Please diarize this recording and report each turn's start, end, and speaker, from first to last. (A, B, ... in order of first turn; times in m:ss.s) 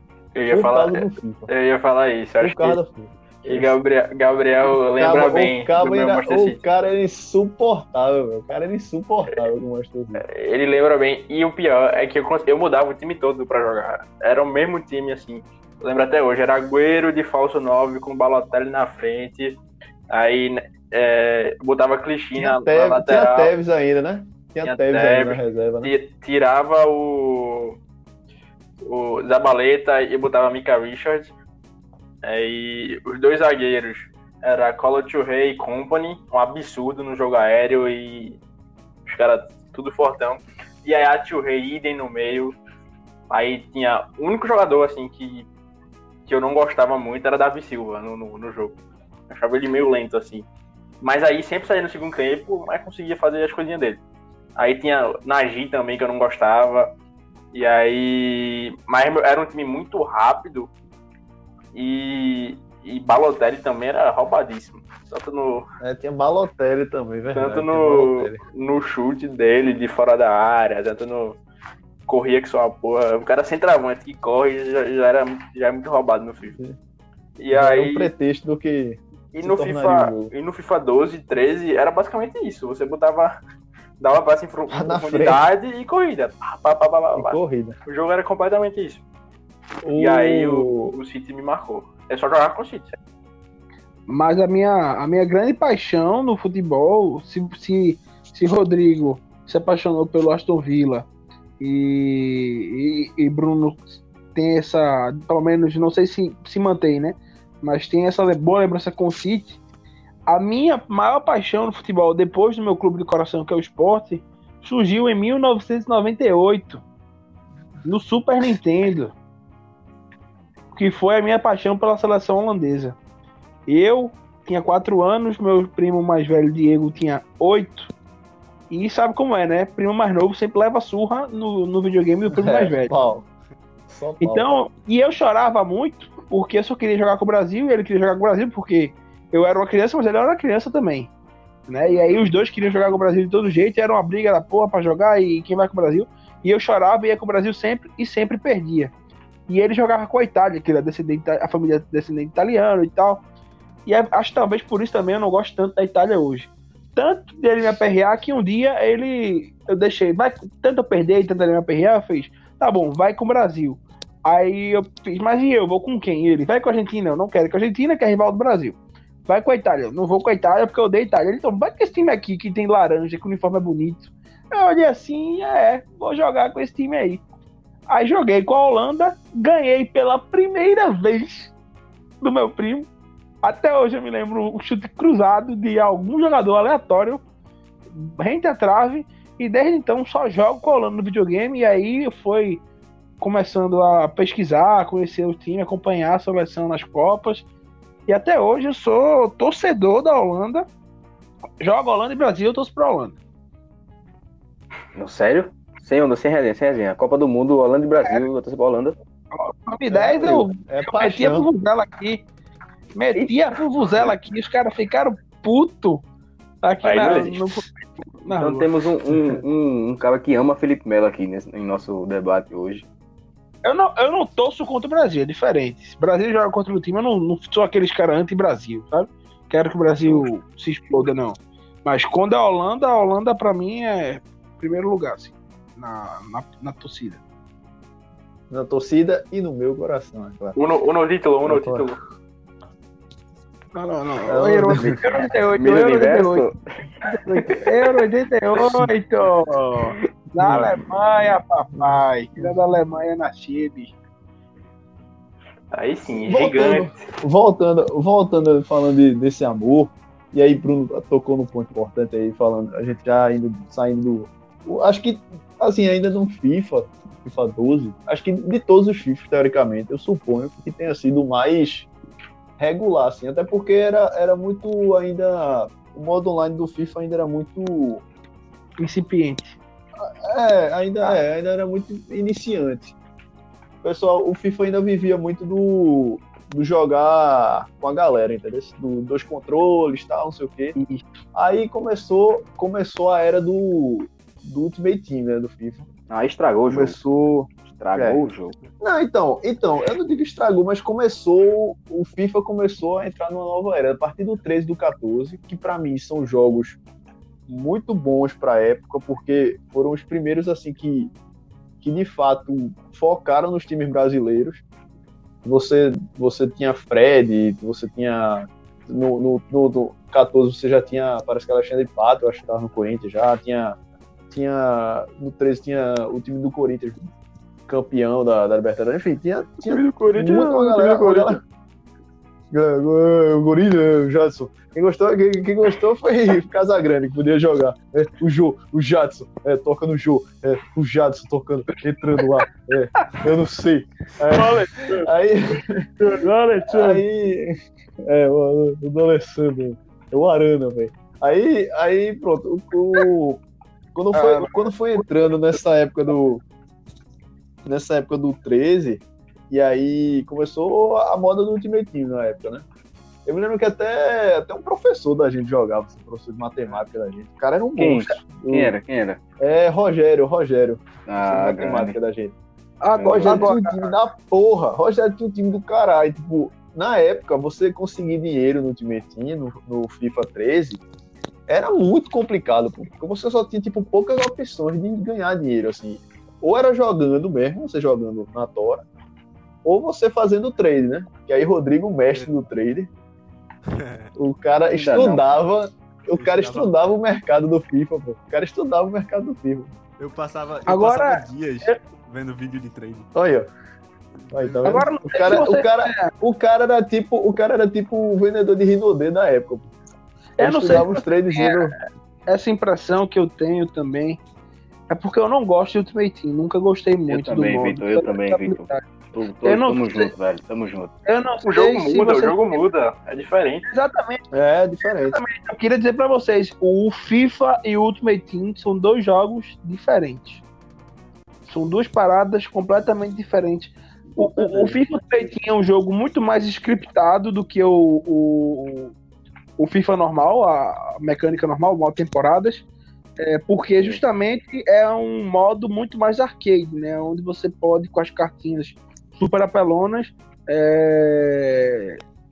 0:00.3-0:02.8 A
0:00.5-0:01.5 B
0:02.4-0:03.8 B
0:03.4-0:06.6 A
0:05.0-0:10.2 B
0:10.2-0:19.6 A
0:20.1-0:23.5 A
0:22.4-0:25.9 B
0:24.6-0:27.8 A
0:28.8-0:31.3 A
0:32.2-0:38.4 A
0:39.0-0:42.5 A
0:43.3-0:45.5 A
0:46.2-0:48.8 A
0:49.3-0:50.4 A
0:51.0-0:54.0 A
0:54.6-0:56.9 A
0:57.5-1:00.7 A
1:01.7-1:05.6 A
1:05.8-1:08.4 B
1:07.3-1:11.4 A
1:12.1-1:16.6 A
1:17.4-1:18.1 A
1:17.5-1:20.3 B
1:19.3-1:23.3 A
1:24.0-1:29.0 A
1:24.7-1:25.5 B
1:27.1-1:27.7 B
1:29.8-1:30.9 B
1:29.9-1:32.9 A
1:34.1-1:41.1 C
1:41.6-1:49.6 C
1:50.3-1:56.8 C
1:57.8-1:59.1 C
2:00.7-2:03.0 C
2:03.7-2:07.9 C
2:08.7-2:12.9 C
2:12.3-2:13.2 B
2:13.9-2:14.5 B
2:14.2-2:21.1 C
2:21.7-2:28.9 C
2:29.5-2:33.2 C
2:33.8-2:57.2 C
2:57.9-3:01.5 C
3:02.2-3:02.9 C
3:03.4-3:07.2 C
3:07.9-3:12.6 C
3:13.2-3:17.4 C
3:18.1-3:20.6 C
3:21.6-3:23.2 C
3:25.0-3:29.0 D
3:29.3-3:32.2 C
3:29.9-3:31.5 B
3:32.9-3:36.0 C
3:36.6-3:37.7 C
3:36.8-3:37.2 A
3:36.9-3:37.4 D
3:38.2-3:38.7 C
3:38.3-3:42.8 D
3:43.6-3:57.2 C
3:58.5-4:00.6 B
4:00.5-4:02.0 A
4:01.4-4:01.8 B
4:03.7-4:06.4 C
4:04.3-4:05.3 B
4:05.5-4:06.6 D
4:07.2-4:07.6 B
4:07.3-4:07.7 D
4:07.5-4:13.9 C
4:10.4-4:10.8 B
4:11.8-4:12.5 B
4:15.7-4:17.0 A
4:16.1-4:31.9 B
4:32.6-4:38.0 B
4:38.8-4:39.6 C
4:40.0-4:42.9 B
4:43.8-4:50.8 B
4:50.8-4:51.0 C
4:51.3-4:55.8 B
4:56.1-4:57.0 D
4:56.7-4:58.2 B
4:57.7-4:58.6 D
4:58.8-5:06.8 B
5:07.5-5:11.1 B
5:11.8-5:14.6 B
5:15.4-5:23.8 B
5:24.3-5:27.1 B
5:27.7-5:31.4 B
5:29.9-5:30.4 C
5:30.3-5:31.3 A
5:32.5-5:45.9 B
5:44.3-5:45.1 C
5:46.0-5:47.0 C
5:46.7-5:53.4 B
5:53.9-5:56.4 B
5:54.1-5:55.0 C
5:57.6-6:02.6 B
6:03.2-6:08.7 B
6:07.8-6:09.2 D
6:09.4-6:12.3 B
6:11.1-6:12.0 D
6:12.8-6:13.8 C
6:13.0-6:13.5 D
6:13.0-6:20.8 B
6:21.5-6:28.8 B
6:29.6-6:32.9 B
6:33.7-6:34.1 E
6:34.2-6:39.7 B
6:34.7-6:35.3 D
6:36.2-6:36.9 E
6:40.0-6:43.1 E
6:40.7-6:41.8 C
6:43.1-6:43.5 B
6:44.2-6:44.9 E
6:44.3-6:49.7 B
6:44.6-6:46.1 C
6:50.4-6:51.6 C
6:50.4-6:51.7 B
6:52.3-6:54.2 C
6:54.9-6:58.9 C
6:57.1-7:00.9 D
6:59.4-7:00.1 C
7:01.0-7:02.6 C
7:01.4-7:03.6 A
7:03.7-7:04.2 C
7:04.3-7:05.2 B
7:05.1-7:10.4 C
7:11.4-7:18.9 C
7:14.2-7:14.8 B
7:19.6-7:22.6 C
7:23.2-7:32.0 C